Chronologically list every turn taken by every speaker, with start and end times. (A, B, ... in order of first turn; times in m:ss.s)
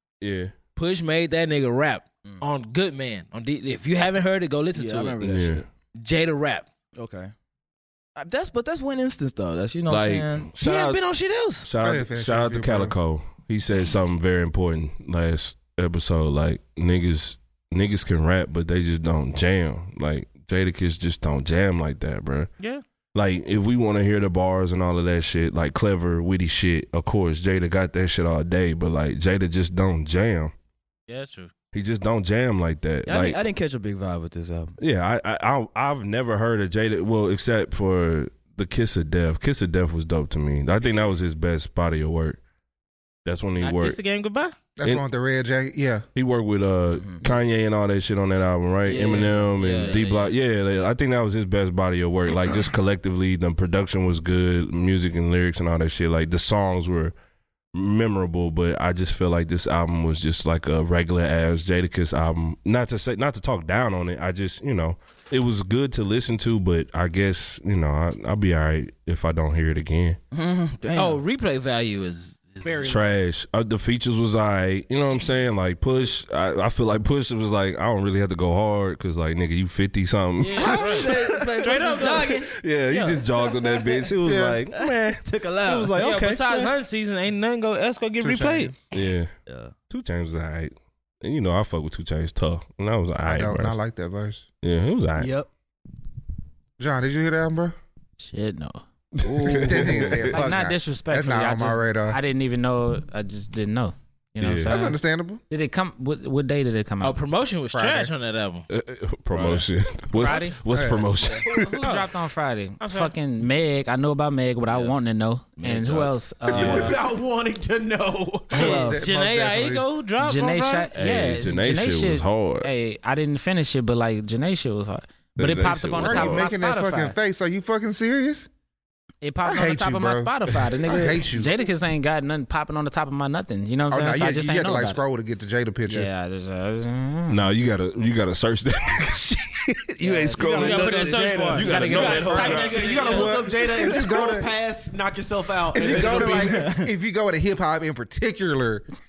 0:00.2-0:00.5 A
0:00.8-0:05.2 B
0:04.7-0:05.6 C
0:05.2-0:05.6 A
0:06.0-0:06.6 B
0:06.9-0:07.3 C
0:08.2-0:10.5 C
0:09.9-0:11.0 A
0:10.6-0:11.7 B
0:11.6-0:22.5 A
0:11.8-0:12.9 D
0:23.1-0:30.5 A
0:31.1-0:31.5 B
0:31.7-0:33.4 A
0:33.0-0:34.8 C
0:34.8-0:42.4 A
0:43.2-0:44.0 A
0:43.6-0:44.5 B
0:44.8-0:46.0 D
0:46.1-0:57.1 A
0:46.9-0:47.2 C
0:48.9-0:50.4 B
0:57.7-1:10.2 A
1:10.3-1:11.2 C
1:10.9-1:12.8 B
1:12.6-1:13.2 E
1:12.8-1:21.5 A
1:20.4-1:23.2 B
1:20.5-1:22.5 C
1:22.4-1:26.7 A
1:23.5-1:24.0 C
1:24.2-1:24.6 D
1:24.7-1:26.0 C
1:26.0-1:28.8 B
1:28.2-1:28.8 D
1:28.9-1:29.3 A
1:28.9-1:29.8 C
1:29.9-1:33.7 A
1:33.2-1:34.5 D
1:34.6-1:35.3 A
1:35.2-1:35.5 E
1:36.8-1:37.8 D
1:38.2-1:38.8 F
1:39.2-1:40.2 A
1:39.2-1:40.1 C
1:39.6-1:42.2 D
1:40.3-1:45.0 F
1:44.4-1:44.8 A
1:44.6-1:45.4 D
1:45.5-1:47.2 F
1:47.0-1:48.7 B
1:47.7-1:48.1 D
1:48.7-1:51.8 A
1:49.3-1:49.6 C
1:50.1-1:50.6 F
1:50.7-1:51.0 D
1:51.6-1:56.9 F
1:51.8-1:52.1 B
1:52.8-1:53.1 B
1:55.6-1:56.1 C
1:56.5-1:56.9 A
1:56.6-1:58.6 E
1:58.5-1:59.8 D
1:58.5-2:00.9 B
1:58.5-1:59.0 F
2:00.2-2:07.2 F
2:00.9-2:02.7 A
2:05.4-2:06.4 A
2:06.0-2:08.5 D
2:09.2-2:15.0 F
2:09.4-2:10.3 D
2:10.8-2:11.5 D
2:13.9-2:16.1 D
2:15.9-2:17.4 F
2:17.3-2:23.0 A
2:20.0-2:20.8 F
2:20.3-2:26.6 E
2:20.4-2:23.4 B
2:21.6-2:22.0 F
2:23.0-2:24.5 D
2:25.7-2:28.8 D
2:25.8-2:26.9 C